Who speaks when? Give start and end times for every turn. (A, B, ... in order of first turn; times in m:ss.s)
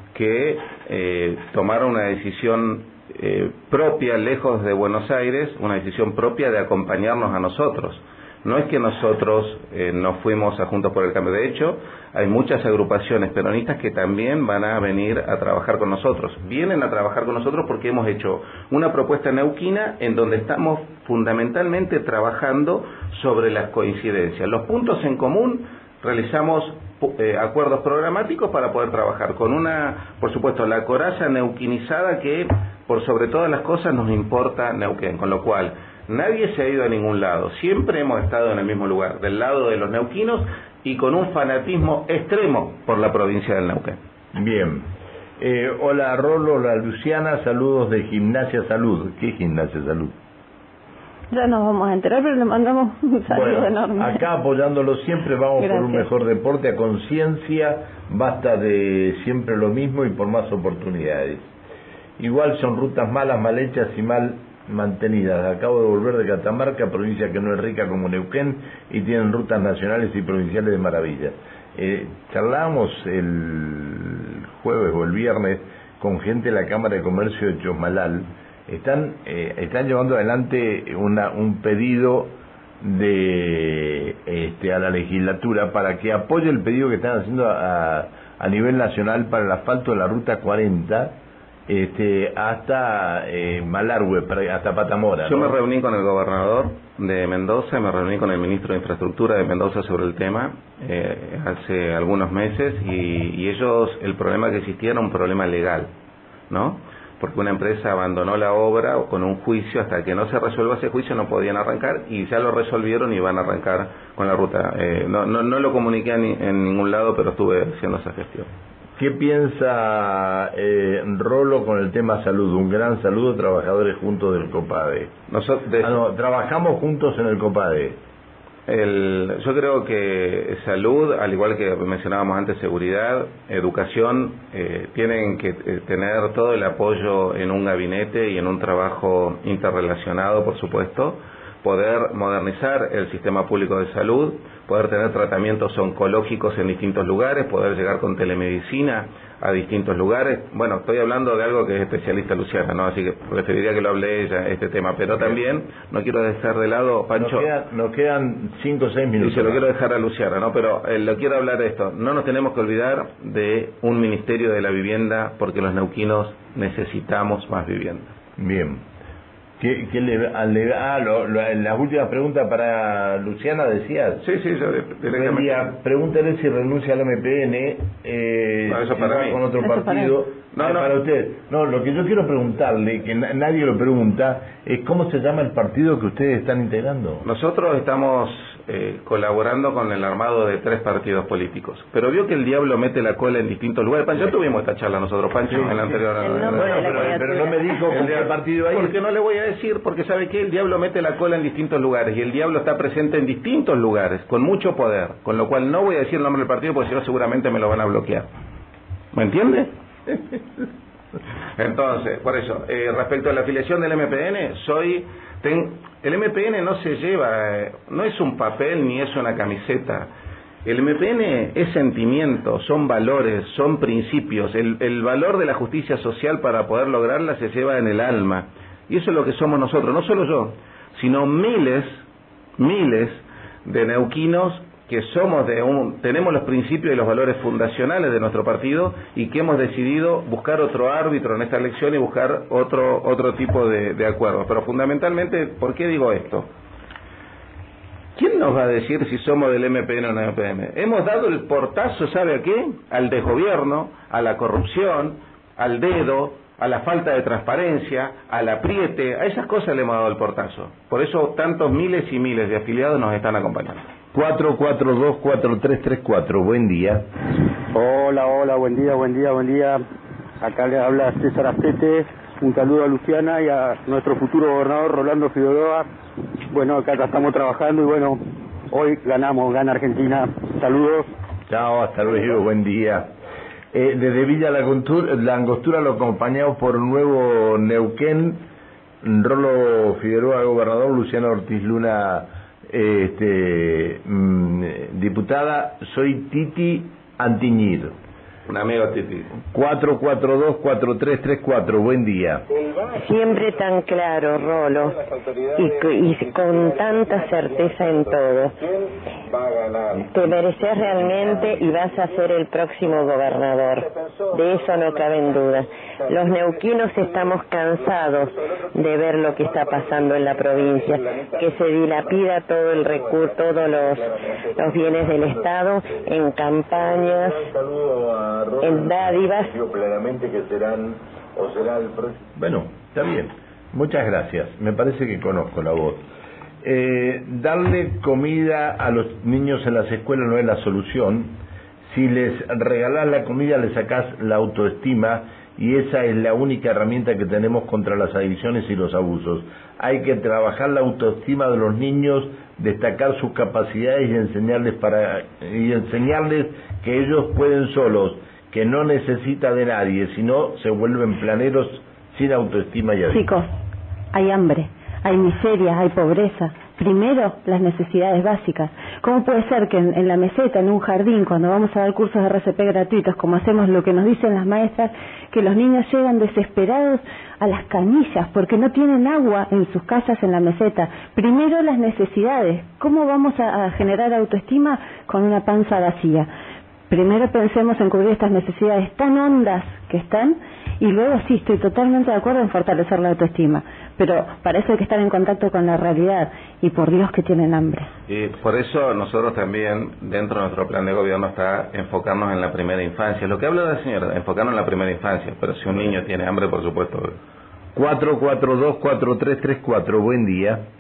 0:00.1-0:44.0 A
0:44.3-0:50.2 B
0:51.3-0:54.2 C
0:53.3-1:01.5 B
0:55.6-0:56.1 C
1:02.2-1:35.6 B
1:35.2-1:45.9 A
1:46.5-1:58.5 A
1:59.0-2:05.1 B
2:05.3-2:06.0 A
2:05.8-2:08.0 B
2:08.7-2:37.5 A
2:37.2-2:39.6 B
2:39.2-2:48.1 A
2:48.4-2:48.8 B
2:49.6-2:54.2 B
2:54.2-2:55.7 A
2:55.1-3:07.2 B
2:58.7-2:59.4 A
2:59.6-3:00.1 C
3:00.5-3:01.0 A
3:07.2-3:17.2 A
3:15.5-3:16.0 B
3:16.2-3:18.0 C
3:16.5-3:19.0 B
3:17.9-3:28.3 A
3:29.1-3:30.2 A
3:31.6-3:40.1 A
3:40.6-3:52.0 A
3:52.6-4:06.5 A
4:08.2-4:23.9 A
4:24.1-4:27.1 B
4:27.7-4:29.8 D
4:30.4-4:35.9 D
4:36.5-4:41.1 D
4:41.5-4:43.1 B
4:43.7-4:48.4 B
4:49.0-4:58.0 B
4:58.5-4:59.3 A
4:59.5-5:02.4 B
5:02.9-5:05.0 E
5:05.6-5:08.6 E
5:10.0-5:27.5 E
5:27.4-5:36.0 B
5:28.6-5:29.5 E
5:36.6-6:03.2 B
6:03.1-6:03.5 C
6:04.1-6:26.3 C
6:26.9-6:37.9 C
6:38.1-6:47.2 A
6:45.7-6:46.0 B
6:47.8-6:50.7 B